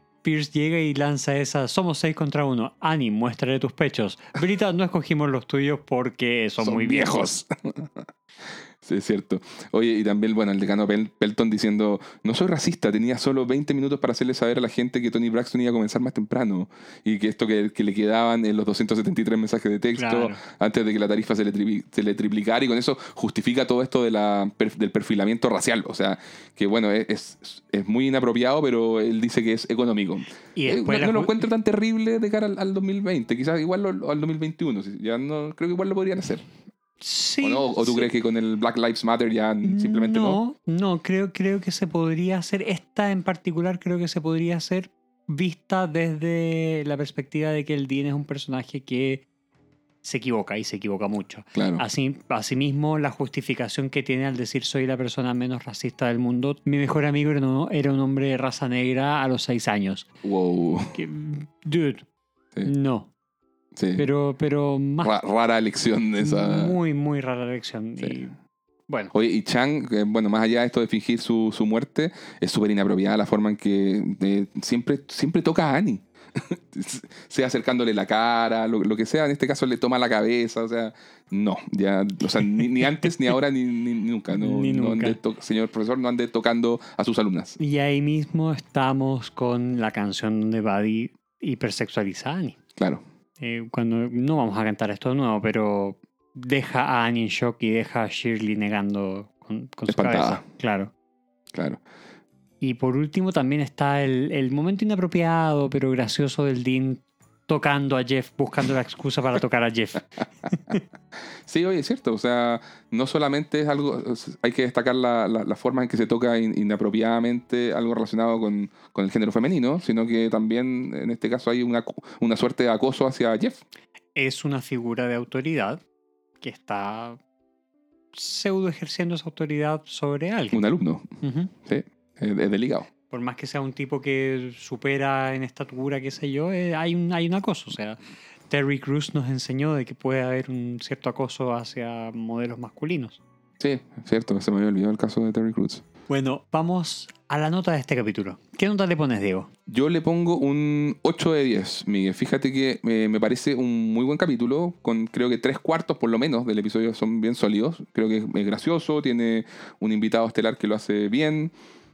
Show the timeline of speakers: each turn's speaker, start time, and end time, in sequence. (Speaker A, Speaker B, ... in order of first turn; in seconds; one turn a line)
Speaker A: 0.2-7.3
Speaker B: 6.6-8.0
Speaker B: 8.8-36.4
Speaker A: 19.9-20.4
Speaker A: 30.6-31.4
Speaker A: 37.0-38.0
Speaker B: 37.4-40.4
Speaker A: 39.6-49.2
Speaker A: 50.0-60.1
Speaker B: 51.5-51.8
Speaker B: 60.2-61.0
Speaker A: 60.9-62.0
Speaker A: 62.6-63.1
Speaker B: 63.8-64.0
Speaker A: 63.9-65.1
Speaker B: 65.0-66.7
Speaker A: 66.2-68.3
Speaker B: 69.1-87.6
Speaker A: 84.3-85.2
Speaker A: 87.6-92.6
Speaker B: 92.8-93.0
Speaker A: 93.4-100.9
Speaker B: 99.9-100.4
Speaker B: 101.5-101.8
Speaker A: 102.6-110.1
Speaker B: 111.5-123.6
Speaker A: 124.2-125.8
Speaker A: 126.4-127.2
Speaker A: 128.1-130.7
Speaker B: 130.5-131.1
Speaker A: 131.2-131.5
Speaker B: 131.6-132.9
Speaker A: 133.1-143.2
Speaker B: 143.6-145.8
Speaker A: 146.1-149.5
Speaker B: 149.7-161.5